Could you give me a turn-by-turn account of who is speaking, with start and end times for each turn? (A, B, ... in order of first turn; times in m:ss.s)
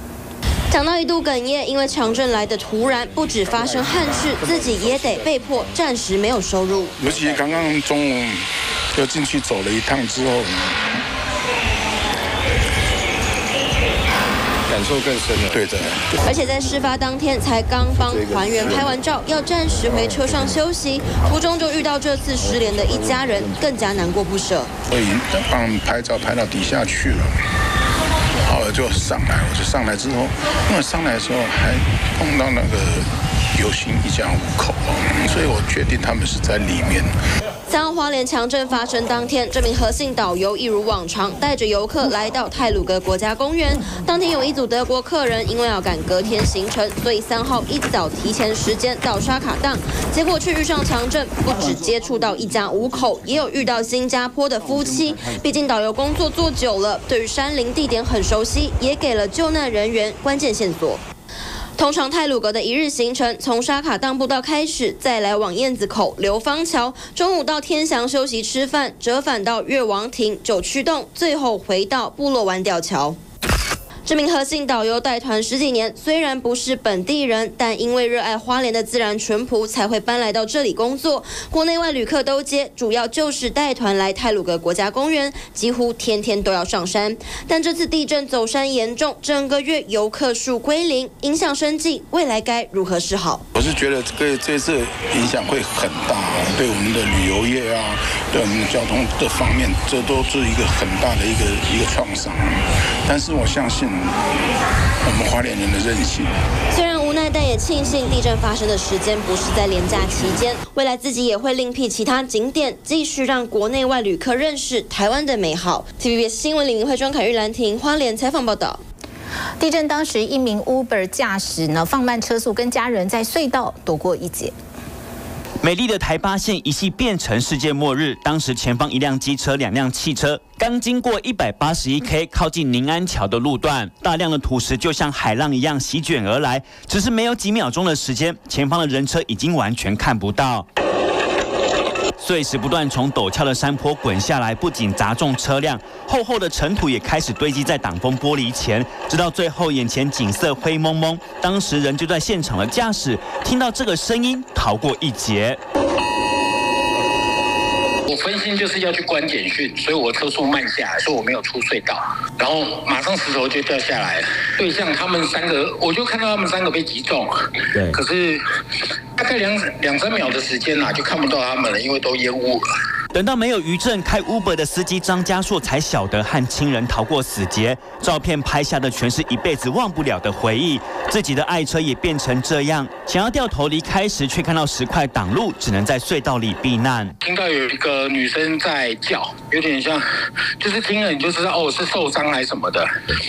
0:00.7-0:07.0 A
0:07.0-0:10.8 B
0:15.5-0:16.1 B
0:16.2-0:24.7 A
0:24.9-0:27.4 B
0:28.5-0:37.1 B
0:37.7-1:01.0 A
1:01.8-1:13.2 A
1:14.1-1:33.4 A
1:33.5-1:44.3 B
1:45.0-1:46.4 B
1:46.7-1:58.8 A
1:59.6-2:04.6 C
2:05.6-2:20.7 D
2:22.2-2:35.6 D
2:38.1-2:48.4 E
2:49.2-2:52.6 E
2:53.1-3:07.2 D
3:07.2-3:10.0 E
3:10.6-3:12.9 E